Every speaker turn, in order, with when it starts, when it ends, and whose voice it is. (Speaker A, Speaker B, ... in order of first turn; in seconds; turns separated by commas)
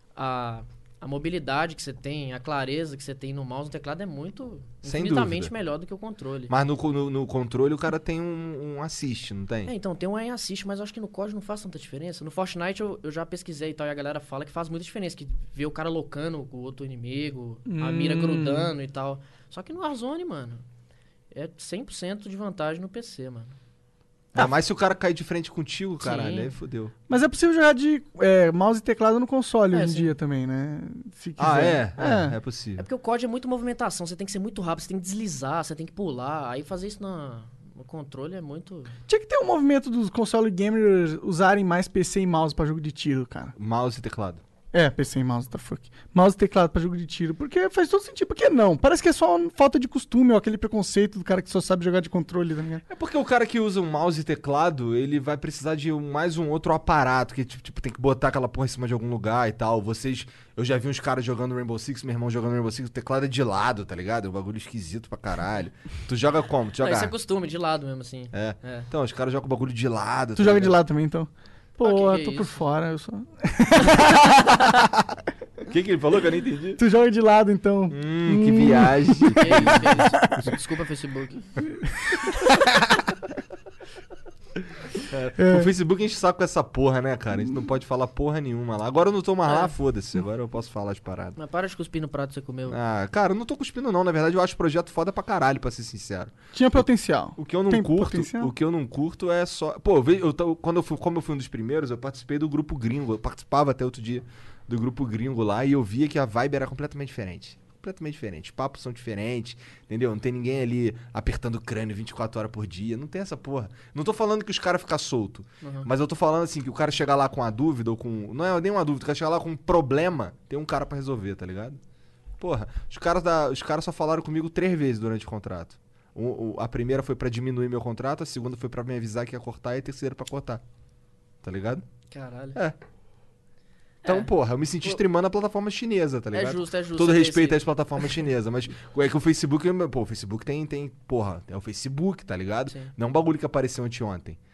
Speaker A: 0.2-6.5, Speaker B: 4.8-5.5, Speaker B: 6.5-9.7, Speaker A: 9.7-20.6, Speaker C: 17.7-18.7, Speaker A: 21.3-23.6, Speaker B: 24.3-26.9, Speaker A: 26.0-26.5, Speaker C: 27.1-32.4, Speaker A: 29.7-30.1, Speaker B: 31.4-32.9, Speaker A: 32.8-38.9, Speaker C: 39.1-43.5, Speaker B: 43.6-44.4, Speaker C: 44.7-52.8, Speaker B: 52.9-67.1, Speaker A: 66.8-68.9, Speaker B: 68.3-70.8, Speaker C: 70.4-74.6, Speaker A: 71.8-72.6, Speaker B: 75.7-76.8, Speaker C: 76.8-80.5, Speaker B: 77.9-80.0, Speaker A: 79.4-81.5, Speaker B: 85.0-91.4, Speaker C: 85.4-85.7, Speaker A: 89.5-89.7, Speaker A: 91.4-92.8, Speaker B: 92.7-96.8, Speaker C: 96.5-98.5, Speaker B: 97.4-121.8, Speaker A: 115.6-115.9, Speaker B: 122.4-130.6, Speaker B: 131.4-131.8, Speaker A: 132.1-132.6, Speaker A: 134.1-134.3, Speaker B: 134.1-144.4, Speaker A: 136.3-137.7, Speaker A: 142.7-142.9